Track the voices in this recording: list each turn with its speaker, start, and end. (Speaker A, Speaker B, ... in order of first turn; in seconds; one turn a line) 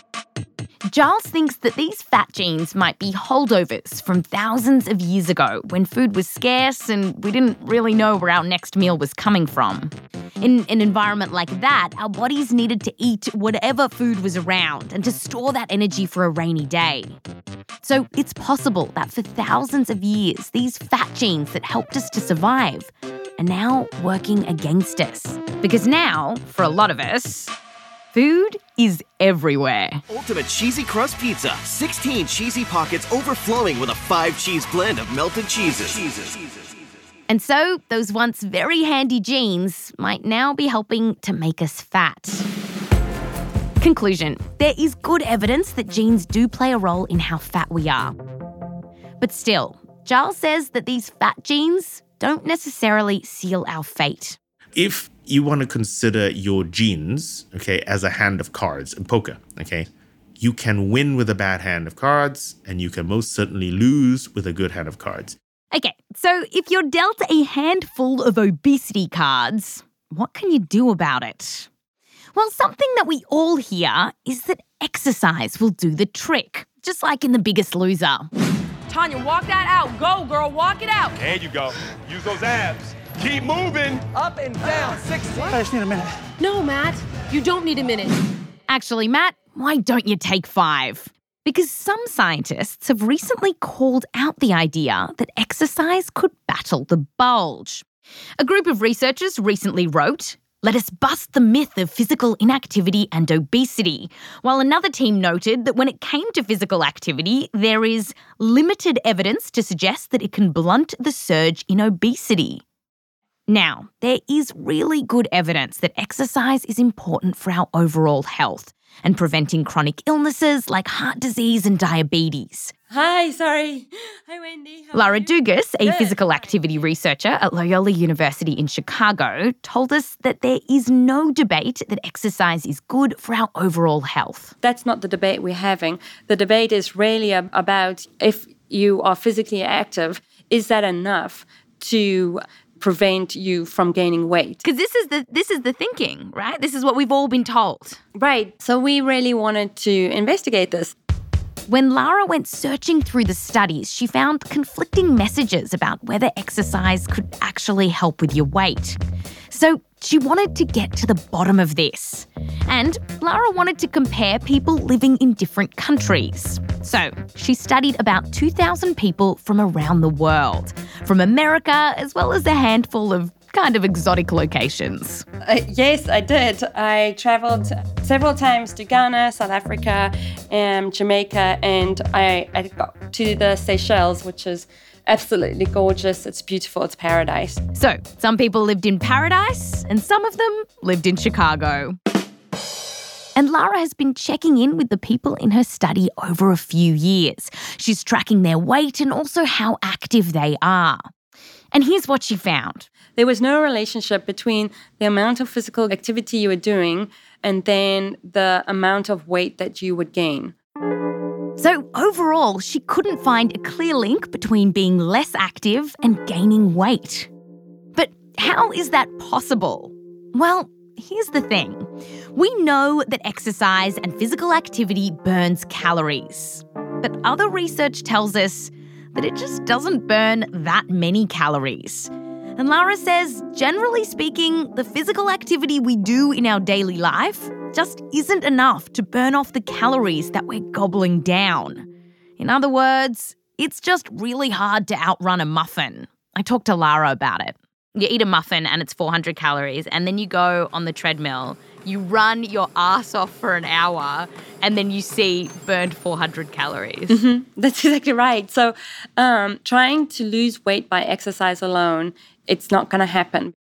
Speaker A: 0.9-17.2
Speaker A: 17.8-27.5
Speaker A: 28.1-30.0
Speaker B: 30.1-36.5
Speaker A: 37.3-42.5
Speaker A: 43.8-48.1
Speaker A: 49.2-54.4
Speaker C: 54.8-65.4
Speaker A: 65.7-71.7
Speaker A: 72.3-78.3
Speaker D: 78.9-81.2
Speaker E: 81.2-84.0
Speaker D: 86.4-88.2
Speaker A: 88.7-97.8
Speaker A: 98.4-112.6
Speaker A: 113.5-122.7
Speaker F: 122.9-126.7
Speaker A: 124.9-134.5
Speaker F: 134.6-144.6
Speaker A: 144.6-148.0
Speaker F: 148.2-150.9
Speaker A: 151.7-159.0
Speaker A: 159.5-175.2
Speaker F: 175.4-187.6
Speaker A: 187.7-192.0
Speaker A: 193.4-201.1
Speaker A: 201.7-202.9
Speaker F: 203.2-210.5
Speaker A: 211.6-217.3
Speaker A: 217.9-241.9
Speaker A: 242.4-257.2
Speaker F: 257.1-263.5